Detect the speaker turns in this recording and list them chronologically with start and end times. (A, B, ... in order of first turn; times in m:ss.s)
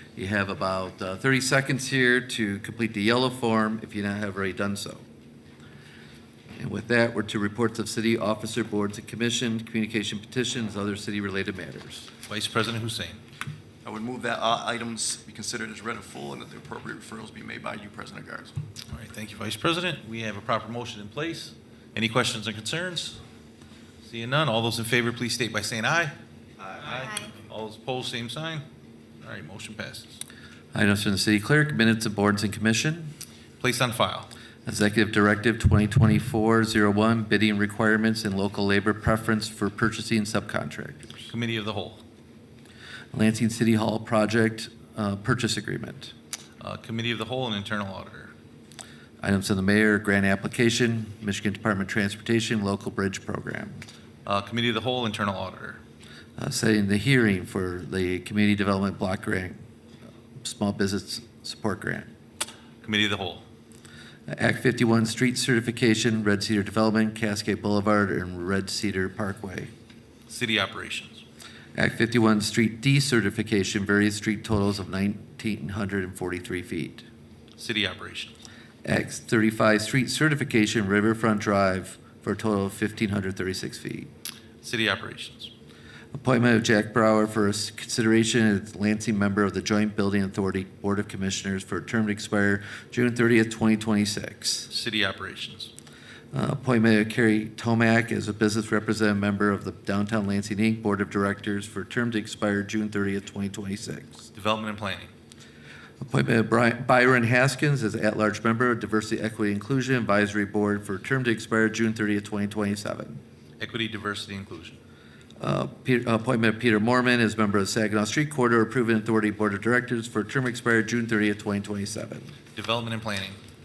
0:00.2-0:05.0 A
0:06.6-0:12.1 A
0:12.3-0:13.2 B
0:13.8-0:18.6 C
0:18.9-0:23.2 B
0:24.0-0:26.1 B
0:26.8-0:28.6 B
0:29.2-0:30.2 B
0:30.7-0:33.1 A
0:33.6-0:34.3 B
0:34.6-0:41.3 A
0:41.3-0:42.0 B
0:43.1-0:46.1 A
0:46.6-0:48.3 B
0:49.2-0:53.8 A
0:54.2-0:55.8 B
0:56.4-0:59.6 A
1:00.4-1:02.1 A
1:02.8-1:03.4 B
1:04.3-1:09.7 A
1:10.3-1:11.2 B
1:11.8-1:17.0 A
1:17.6-1:18.4 B
1:18.8-1:24.1 A
1:24.6-1:25.5 B
1:26.1-1:34.7 A
1:34.7-1:35.7 B
1:36.3-1:44.3 A
1:44.3-1:45.1 B
1:46.0-1:53.2 A
1:53.6-1:54.8 B
1:55.4-2:02.4 A
2:02.5-2:03.4 B